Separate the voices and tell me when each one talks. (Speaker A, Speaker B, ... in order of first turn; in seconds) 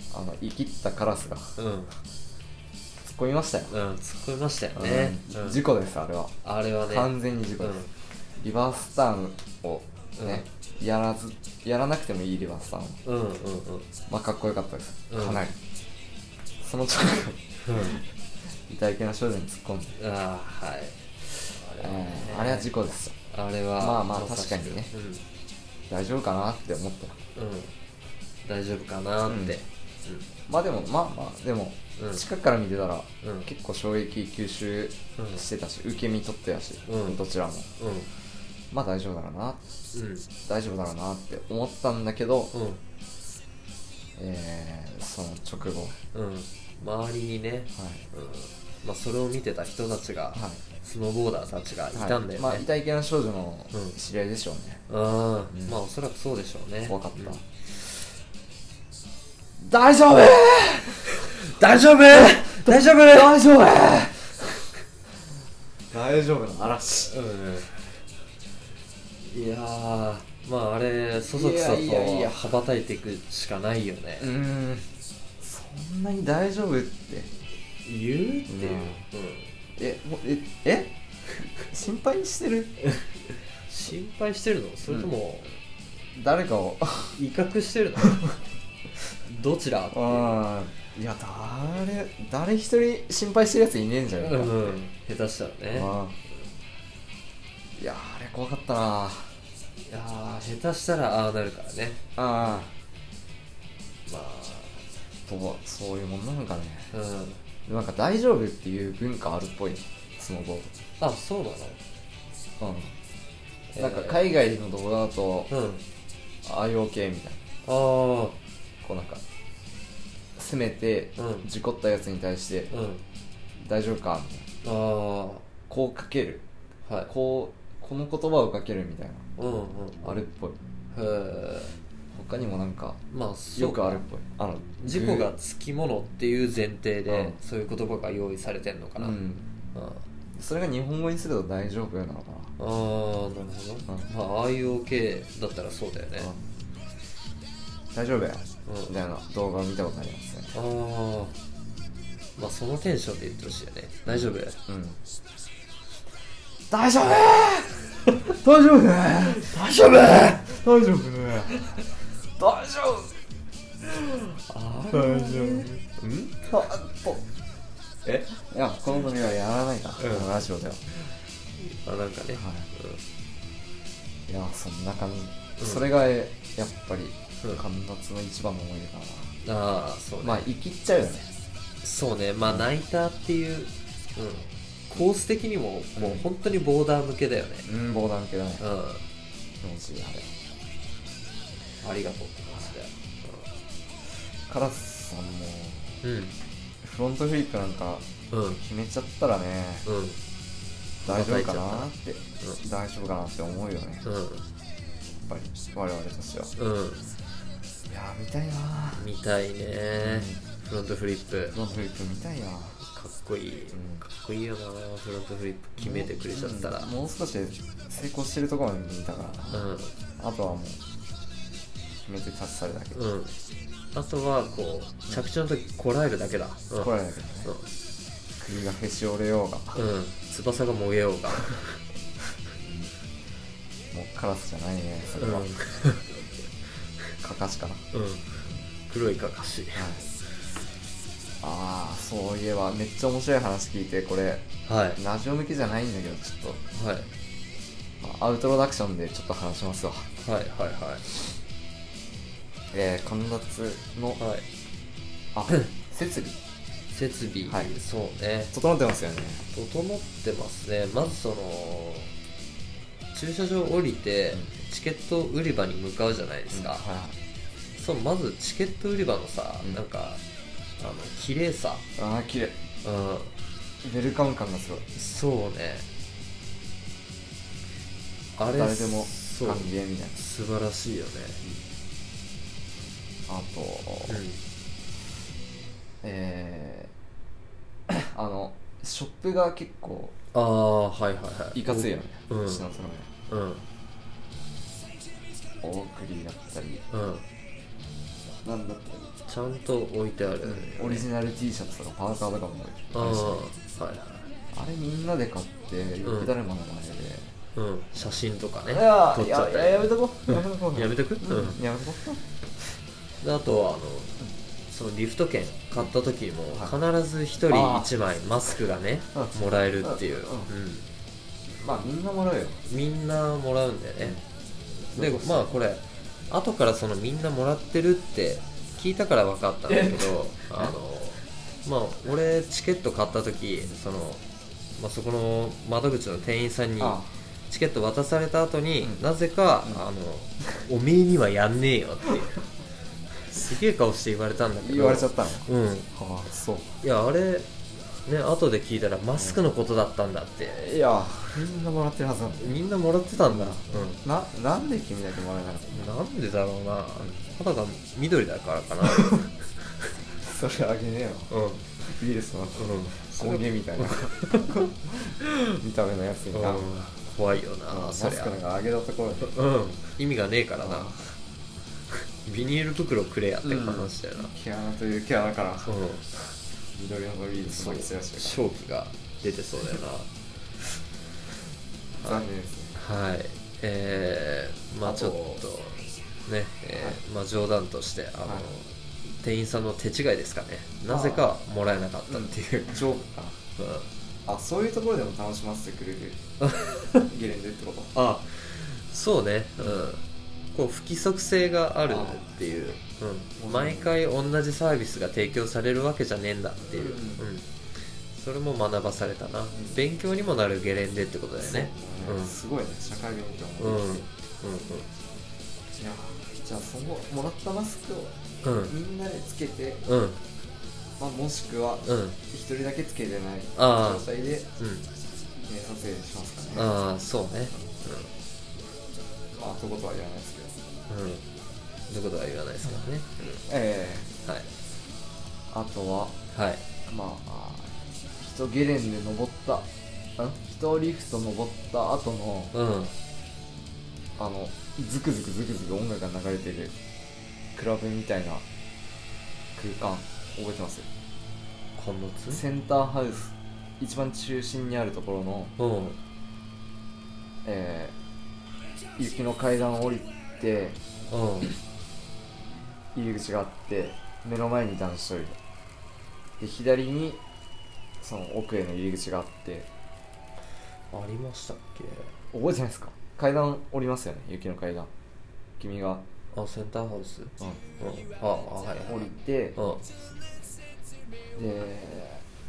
Speaker A: 0.1-1.6, 3.0-3.7, 4.7-6.3, 6.9-7.8, 8.4-13.0, 14.1-15.6, 16.6-18.0, 18.7-19.9, 21.8-23.1, 23.8-24.9, 25.9-27.2, 29.3-29.6, 30.5-37.7, 38.7-39.6, 40.5-42.5, 44.2-46.0, 47.7-48.1, 50.4-50.6, 51.9-54.8, 55.5-55.8, 56.9-57.4, 59.6-61.2, 62.1-64.4, 65.9-67.1, 71.3-72.4, 74.2-74.9, 75.4-77.3, 78.5-79.0, 79.8-80.9, 81.6-82.8, 84.9-85.1, 86.1-87.2, 89.9-94.8, 95.7-96.2, 97.8-99.3, 102.2-102.7, 105.3-106.9, 107.7-110.7, 112.6-112.9, 113.8-115.5, 116.5-117.4, 118.8-119.2, 120.4-122.7, 123.6-124.5, 125.7-126.4, 127.1-129.3, 130.0-130.6, 132.1-133.0, 133.6-135.3, 137.1-137.4, 139.0-139.5, 140.3-142.5, 147.9-150.5, 154.1-155.0, 156.7-161.8, 162.4-163.2, 163.8-165.7, 166.4-167.2, 168.1-170.9, 172.4-172.7, 174.3-179.3, 180.2-181.3, 186.0-186.3, 187.7-188.6, 189.6-190.3, 194.5-196.0, 196.8-199.9, 201.1-204.0, 205.2-206.5, 207.9-209.1, 210.0-210.4, 211.5-212.8, 213.7-214.0, 215.8-220.8, 222.1-223.0, 226.8-227.5, 228.4-229.8, 232.6-232.9, 233.9-235.6, 237.2-237.9, 239.7-240.0, 241.4-246.6, 248.0-250.1, 252.7-254.2, 255.3-256.4, 258.5-259.4, 266.5-267.1, 272.0-272.6, 273.8-274.9, 278.4-280.1, 283.3-284.2, 286.0-286.9, 287.9-290.1, 291.6-293.1, 295.6-296.8, 298.4-299.1, 300.4-303.4, 304.5-307.3, 308.6-312.2, 317.5-317.9, 319.1-320.5, 321.6-322.6, 324.9-325.6, 329.7-330.7, 336.8-337.1, 344.6-346.8, 349.2-349.4, 350.6-352.6, 353.2-356.0, 357.0-357.3, 358.9-359.2, 360.1-366.7, 367.7-369.4, 370.6-371.1, 373.4-378.4, 382.0-382.8, 384.9-385.2, 386.7-387.0, 388.2-388.5, 390.9-391.3, 392.1-393.4, 394.3-396.2, 397.1-397.9, 401.9-402.2, 403.4-403.9, 406.7-407.2, 411.4-414.1, 415.8-418.1, 418.7-419.8, 421.0-424.5, 425.4-426.7, 429.4-430.6, 433.2-434.1, 435.5-436.2, 436.9-442.5, 444.2-446.7, 447.5-448.4, 449.6-450.9, 452.3-455.6, 457.4-457.9, 459.0-460.8, 462.9-465.4, 466.4-467.2, 468.0-469.7, 472.3-474.9, 475.6-476.1, 478.9-479.6, 481.4-482.2
Speaker B: 1.6-1.9, 3.7-5.6, 6.4-7.9, 10.2-10.4, 13.1-13.9, 15.1-15.4, 17.7-18.0, 20.0-22.7, 23.3-25.2, 27.4-27.7, 28.4-30.3, 32.0-32.2, 33.2-33.5, 35.2-35.5, 36.9-37.2, 37.8-38.1, 39.9-40.3, 42.5-42.8, 46.1-52.7, 54.9-57.4, 61.1-63.5, 67.1-67.7, 69.2-74.3, 77.8-79.5, 83.7-85.5, 87.2-88.4, 89.2-90.4, 94.2-95.9, 99.9-102.6, 104.1-104.8, 106.9-107.4, 111.0-111.8, 113.7-114.2, 115.5-115.8, 117.6-118.4, 121.2-121.5, 122.7-123.0, 124.6-125.5, 129.4-130.2, 130.9-131.8, 133.1-134.0, 134.8-139.2, 139.7-140.0, 142.6-146.3, 148.7-149.0, 150.5-151.3, 152.4-154.6, 159.5-160.4, 164.9-166.5, 170.0-170.3, 171.6-173.0, 175.6-175.9, 179.4-180.5, 181.8-187.7, 188.6-189.1, 191.8-193.5, 196.0-196.3, 198.3-198.6, 199.9-200.2, 201.0-202.6, 204.0-204.4, 206.6-207.1, 209.0-211.6, 212.9-216.9, 219.5-219.9, 222.9-223.3, 223.9-226.9, 229.7-231.8, 235.1-236.1, 237.9-239.9, 244.7-245.0, 246.7-247.1, 250.2-251.1, 254.2-254.4, 256.9-258.5, 259.5-262.1, 263.1-266.8, 267.8-270.2, 270.8-271.9, 272.8-273.3, 274.9-275.9, 278.4-281.4, 284.1-284.4, 290.3-292.7, 293.3-293.6, 296.9-297.2, 299.3-301.1, 302.9-304.3, 306.0-306.3, 307.6-311.6, 313.2-320.9, 322.7-324.2, 324.9-334.2, 334.8-342.4, 343.2-345.9, 346.8-347.4, 348.1-350.8, 352.4-354.0, 355.7-359.9, 361.3-361.6, 362.6-364.7, 366.3-368.4, 369.2-370.9, 372.2-374.3, 375.6-376.1, 377.4-380.1, 382.0-392.9, 393.6-393.9, 396.4-397.1, 397.9-400.0, 400.5-407.4, 408.1-412.3, 413.6-414.9, 418.4-418.8, 419.9-420.2, 421.9-422.2, 423.6-424.1, 424.6-424.9, 426.6-428.1, 430.9-431.2, 431.9-433.2, 436.3-436.6, 442.5-442.9, 451.8-452.4, 455.6-456.0, 461.1-461.5, 470.9-472.1, 476.3-479.8